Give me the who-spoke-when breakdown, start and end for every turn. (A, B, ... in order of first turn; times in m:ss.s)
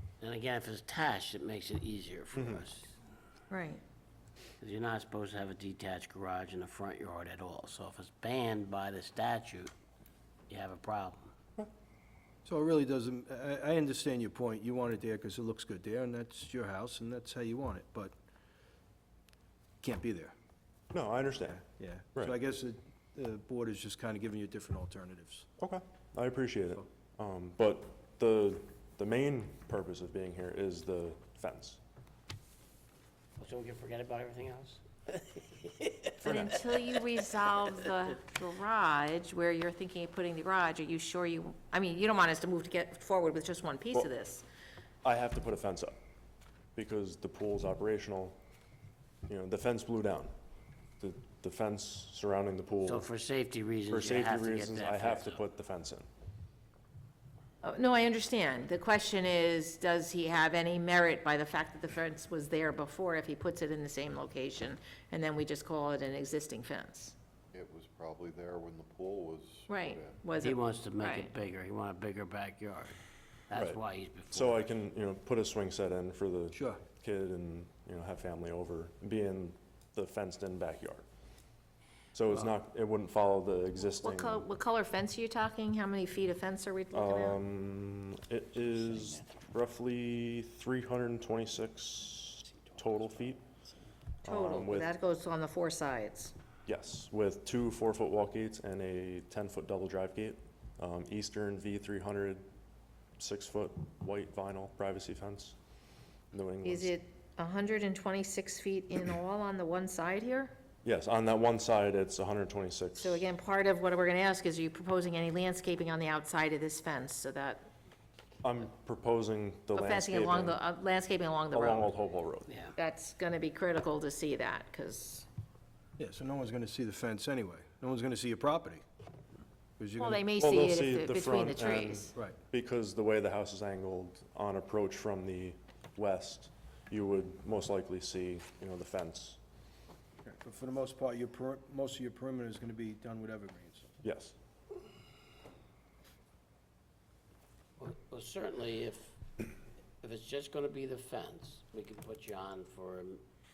0:00.2-0:02.9 A
0:02.3-0:02.6 B
0:03.5-0:03.8 C
0:04.6-0:09.7 A
0:10.5-0:11.2 A
0:12.4-0:18.1 D
0:19.8-0:20.3 D
0:20.9-0:22.4 B
0:21.8-0:25.4 D
0:25.6-0:31.8 B
0:33.4-0:36.4 A
0:36.2-0:44.4 C
0:36.2-0:36.6 B
0:45.0-0:46.0 B
0:46.7-0:48.4 B
0:49.3-0:50.3 B
0:51.0-0:53.0 B
0:52.8-0:55.4 A
0:53.9-0:56.1 B
0:57.6-1:07.1 C
1:07.5-1:10.2 E
1:09.7-1:11.3 C
1:10.4-1:13.0 A
1:13.5-1:14.7 A
1:13.5-1:13.8 B
1:14.3-1:21.0 B
1:16.5-1:16.8 D
1:22.1-1:24.4 B
1:24.0-1:27.4 C
1:26.9-1:33.4 B
1:34.2-1:34.9 B
1:34.2-1:36.3 C
1:36.6-1:42.4 B
1:43.2-1:45.6 B
1:46.3-1:46.9 B
1:46.6-1:50.5 C
1:50.8-1:53.2 B
1:53.0-1:57.7 C
1:58.4-2:00.6 B
1:59.7-2:01.9 C
2:01.5-2:02.5 B
2:02.5-2:02.7 A
2:02.8-2:05.2 C
2:06.0-2:08.8 D
2:09.8-2:10.1 D
2:10.0-2:12.1 C
2:10.4-2:19.4 B
2:20.2-2:23.9 D
2:24.0-2:24.3 B
2:27.8-2:29.1 A
2:30.0-2:33.2 A